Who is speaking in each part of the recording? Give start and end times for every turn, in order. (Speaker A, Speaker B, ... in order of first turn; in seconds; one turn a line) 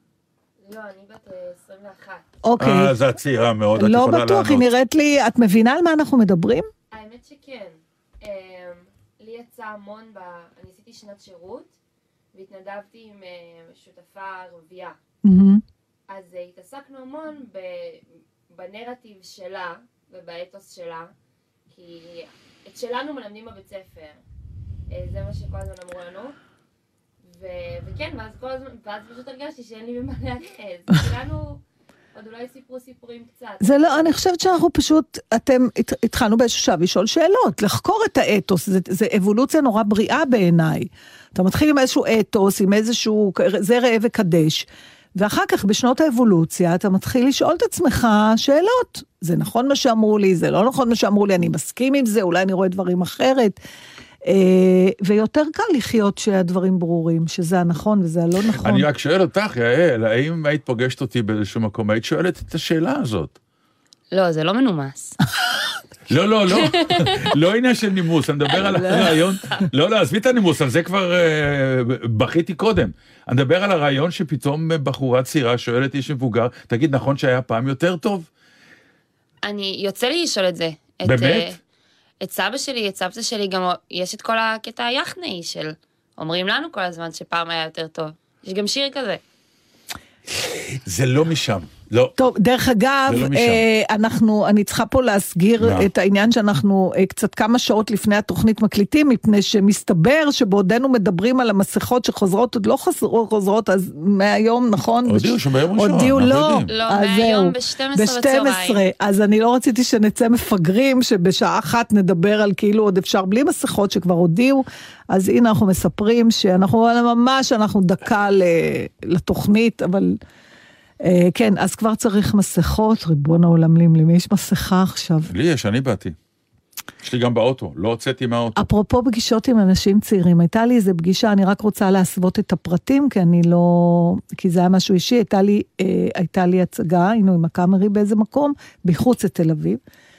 Speaker A: 0.6-2.2
Speaker B: 2.5-3.0
Speaker C: 2.6-4.7
Speaker B: 3.8-6.7
Speaker A: 6.9-11.7
Speaker A: 12.3-15.0
Speaker B: 15.2-15.6
Speaker A: 16.1-21.1
Speaker A: 21.7-24.2
Speaker A: 24.9-26.3
Speaker A: 27.3-31.6
Speaker A: 32.1-34.2
Speaker B: 33.6-53.5
Speaker B: 54.2-58.9
Speaker C: 58.6-63.4
Speaker A: 64.1-65.1
Speaker C: 66.1-78.3
Speaker A: 66.7-67.2
Speaker B: 68.5-69.1
Speaker A: 79.4-81.6
Speaker C: 81.0-81.5
Speaker A: 82.2-89.2
Speaker C: 90.8-92.1
Speaker B: 92.2-120.2
Speaker C: 93.1-93.6
Speaker C: 95.6-95.9
Speaker C: 105.0-106.7
Speaker A: 106.7-108.8
Speaker B: 121.0-125.3
Speaker C: 125.2-126.2
Speaker C: 127.0-128.7
Speaker B: 128.6-139.8